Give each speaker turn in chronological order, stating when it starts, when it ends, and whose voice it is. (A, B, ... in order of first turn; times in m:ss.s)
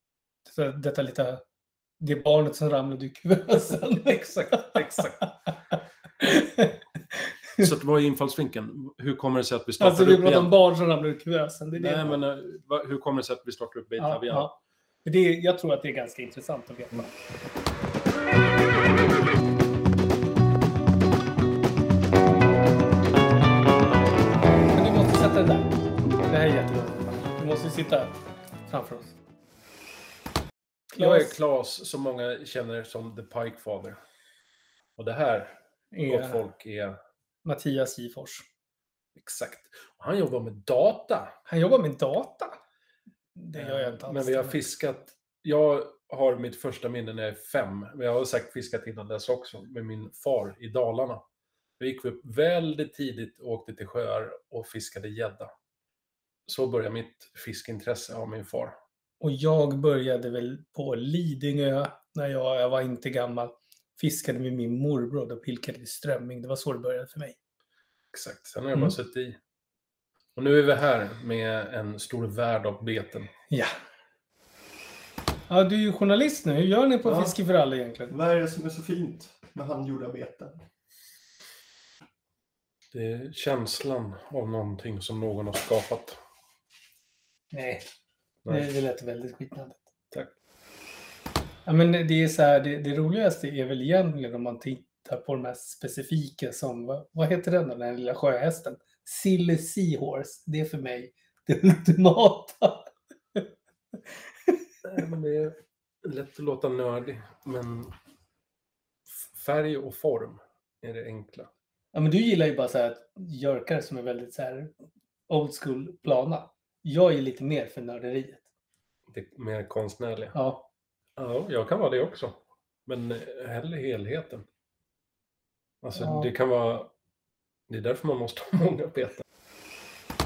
0:00.5-0:01.4 A
0:02.0-0:05.3 A
0:03.7-0:05.2 B
0:06.2-0:06.8 A
0:07.6-0:10.5 B
0:09.8-0:12.2 A
0:11.8-0:14.5 B
0:14.0-0:17.1 A
0:24.7-0:25.7 A
0:26.3-0:29.2 A
0:30.9-0:34.0 B
0:30.9-0:31.4 A
0:35.0-0:35.6 B
0:35.9-0:36.4 A
0:36.1-0:37.0 B
0:37.4-0:38.4 A
0:39.2-0:41.3 B
0:41.5-0:42.6 A
0:43.4-0:44.7 A
0:43.6-0:51.2 B
0:51.8-0:55.5 B
0:56.4-0:58.8 B
0:59.2-1:07.4 A
1:08.1-1:09.4 B
1:10.4-1:13.3 B
1:15.5-1:18.1 A
1:17.0-1:17.4 C
1:18.1-1:20.6 C
1:22.9-1:26.2 B
1:27.5-1:27.9 A
1:28.4-1:28.7 B
1:28.5-1:29.8 A
1:31.7-1:43.5 A
1:44.8-1:47.9 B
1:49.1-1:51.5 B
1:51.9-1:54.7 A
1:55.3-1:58.4 A
1:59.1-2:00.4 B
2:00.3-2:00.7 A
2:01.2-2:04.4 B
2:05.8-2:06.9 B
2:06.0-2:06.3 A
2:07.7-2:09.2 B